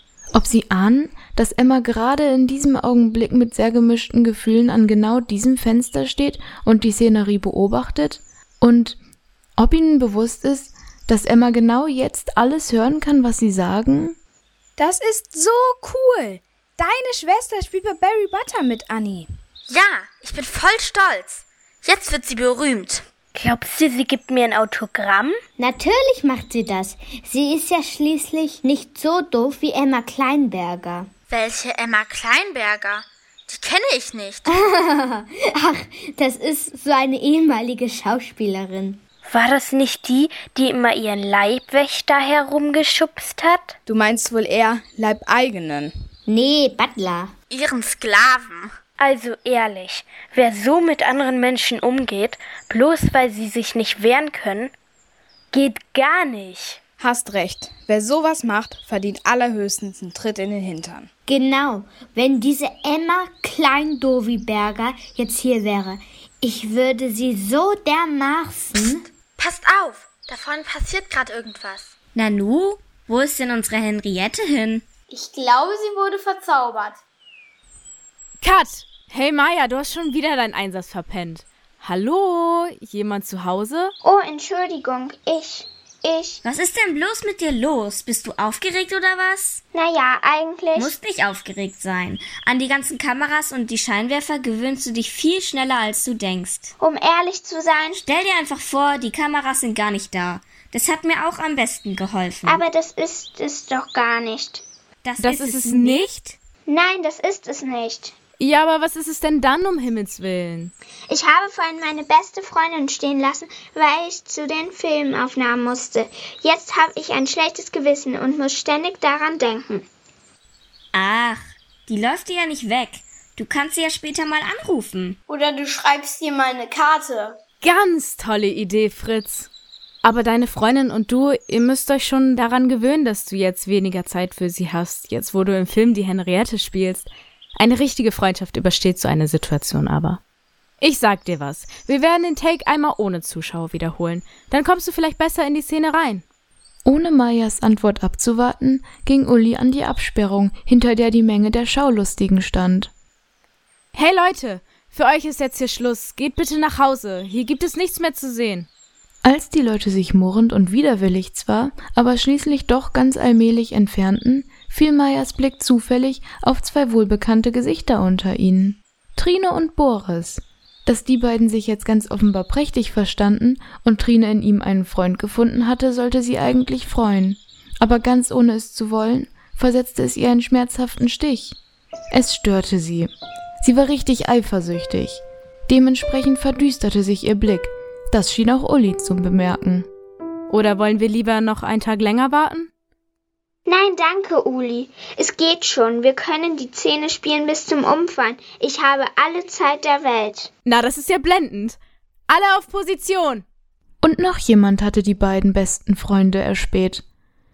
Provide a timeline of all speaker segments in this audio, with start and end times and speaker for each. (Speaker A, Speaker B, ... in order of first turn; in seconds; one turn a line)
Speaker A: 0.3-9.0
Speaker A: 9.6-14.2
Speaker B: 14.8-19.3
Speaker C: 19.7-23.1
Speaker D: 23.3-25.4
Speaker E: 25.6-31.1
Speaker C: 31.3-34.5
Speaker E: 34.5-39.0
Speaker D: 39.2-43.8
Speaker B: 43.9-45.9
Speaker E: 46.3-47.3
Speaker C: 47.5-48.7
Speaker D: 49.0-54.7
Speaker D: 55.5-56.8
Speaker B: 57.0-61.1
Speaker E: 61.3-69.0
Speaker C: 68.8-71.9
Speaker F: 72.1-74.8
Speaker G: 75.1-77.0
Speaker H: 78.4-83.9
Speaker I: 84.0-86.4
Speaker F: 86.4-89.6
Speaker I: 89.7-90.9
Speaker F: 90.8-96.7
Speaker I: 96.8-98.0
Speaker F: 98.0-102.6
Speaker I: 102.5-104.6
Speaker F: 105.0-106.3
Speaker H: 105.2-106.2
Speaker I: 106.7-108.1
Speaker H: 108.4-110.7
Speaker I: 111.1-119.8
Speaker F: 120.9-125.2
Speaker G: 125.3-127.4
Speaker H: 127.6-129.5
Speaker H: 130.0-140.2
Speaker H: 140.8-146.2
Speaker A: 146.8-152.9
Speaker H: 153.9-158.7
Speaker A: 159.2-181.6
Speaker A: 182.1-183.1
Speaker A: 183.6-189.9
Speaker H: 190.5-192.7
Speaker I: 193.7-200.5
Speaker H: 200.6-201.8
Speaker H: 202.3-203.4
Speaker A: 204.0-207.0